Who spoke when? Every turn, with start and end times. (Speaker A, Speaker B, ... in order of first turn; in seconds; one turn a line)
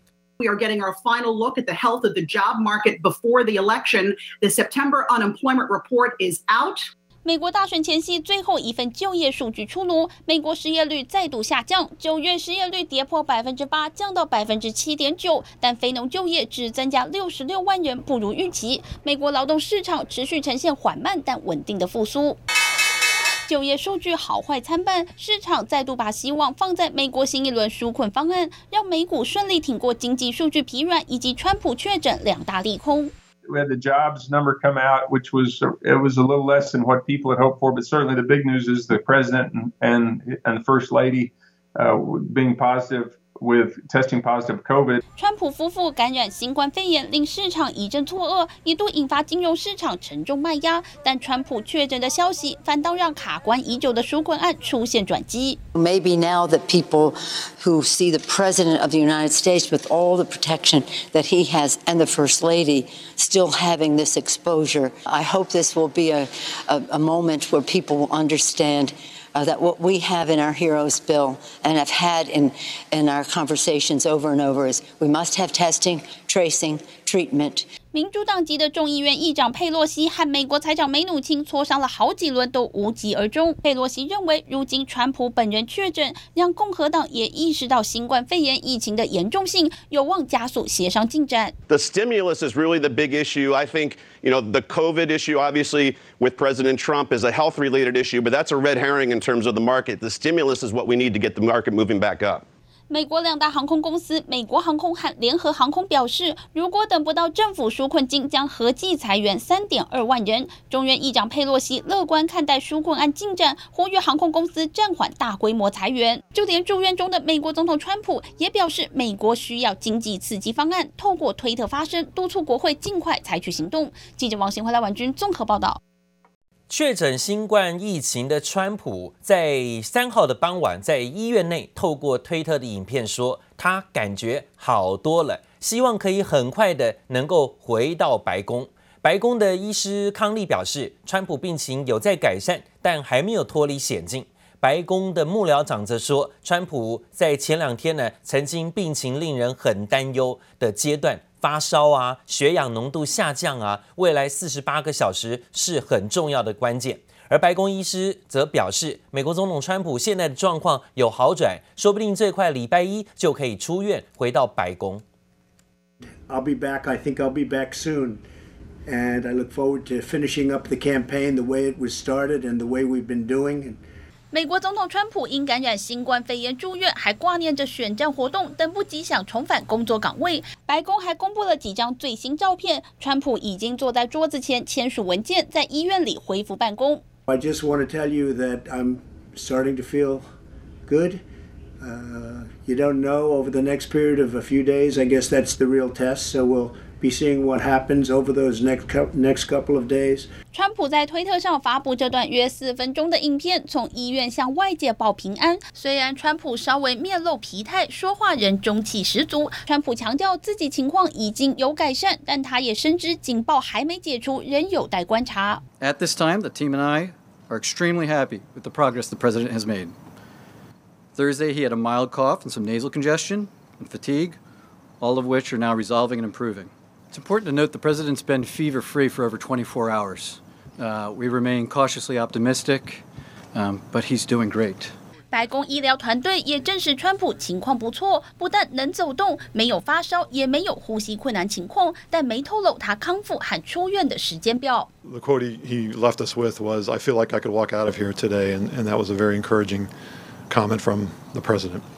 Speaker A: 0.4-6.8
Speaker B: 7.2-22.4
Speaker B: 23.5-33.1
Speaker C: 33.5-45.0
Speaker B: 45.1-55.6
Speaker D: 55.8-77.7
Speaker B: 77.9-91.5
Speaker E: 91.7-102.4
Speaker B: 102.9-125.8
Speaker F: 126.7-165.0
Speaker G: 166.3-168.2
Speaker G: 168.9-173.8
Speaker B: 174.3-187.0
Speaker G: 187.3-190.2
Speaker G: 190.9-191.2
Speaker G: 191.8-200.3
Speaker B: 200.5-215.6
Speaker H: 215.8-219.9
Speaker H: 221.2-224.4
Speaker H: 225.0-233.0
Speaker H: 233.5-234.9
Speaker B: 235.3-244.9
Speaker I: 245.1-249.9
Speaker I: 250.5-251.8